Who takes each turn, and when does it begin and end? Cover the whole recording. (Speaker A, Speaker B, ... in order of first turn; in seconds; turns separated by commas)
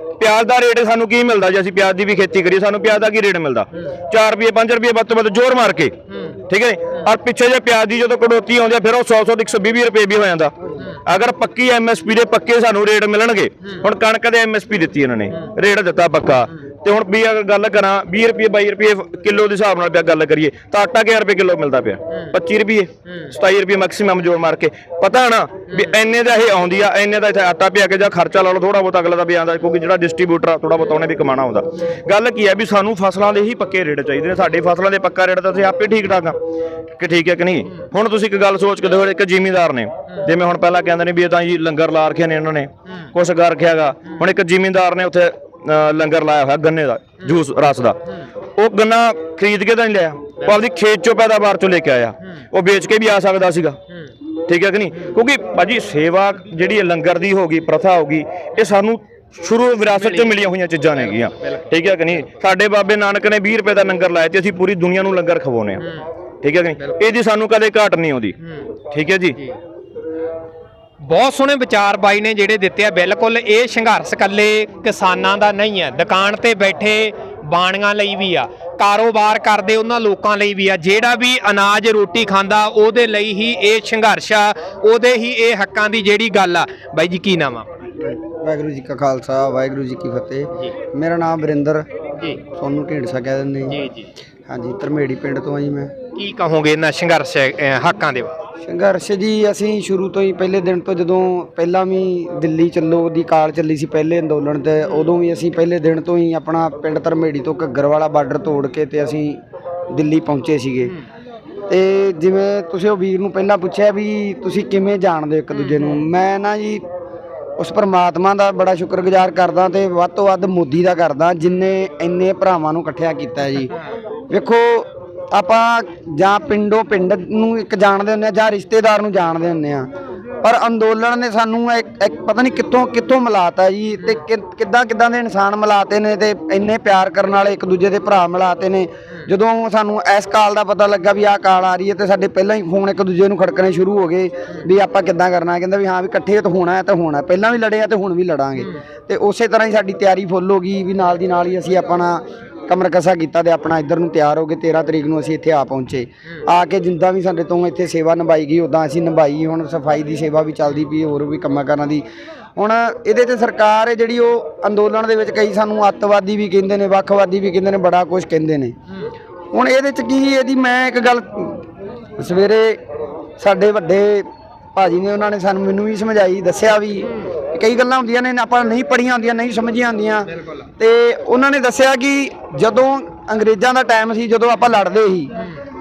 Speaker A: 0.2-6.0, Speaker B: 6.1-6.4, Speaker A: 6.5-36.4, Speaker B: 23.1-23.3, Speaker A: 37.0-48.0, Speaker A: 48.6-53.8, Speaker A: 54.5-65.8, Speaker B: 59.9-60.4, Speaker B: 60.9-62.4, Speaker B: 65.8-66.0, Speaker A: 66.4-68.4, Speaker B: 68.4-68.7, Speaker A: 68.9-69.4, Speaker B: 71.0-87.9, Speaker C: 88.0-91.9, Speaker C: 92.5-93.8, Speaker B: 93.7-94.1, Speaker C: 94.5-95.9, Speaker B: 96.2-98.4, Speaker C: 98.6-110.9, Speaker C: 111.7-116.8, Speaker B: 115.5-116.0, Speaker C: 117.6-123.7, Speaker C: 124.3-129.9, Speaker C: 130.4-162.1, Speaker B: 148.6-148.8, Speaker C: 162.6-168.8, Speaker C: 169.5-171.7, Speaker C: 172.2-172.8, Speaker C: 173.4-185.3, Speaker B: 177.1-177.3, Speaker B: 180.3-180.7, Speaker B: 185.3-185.6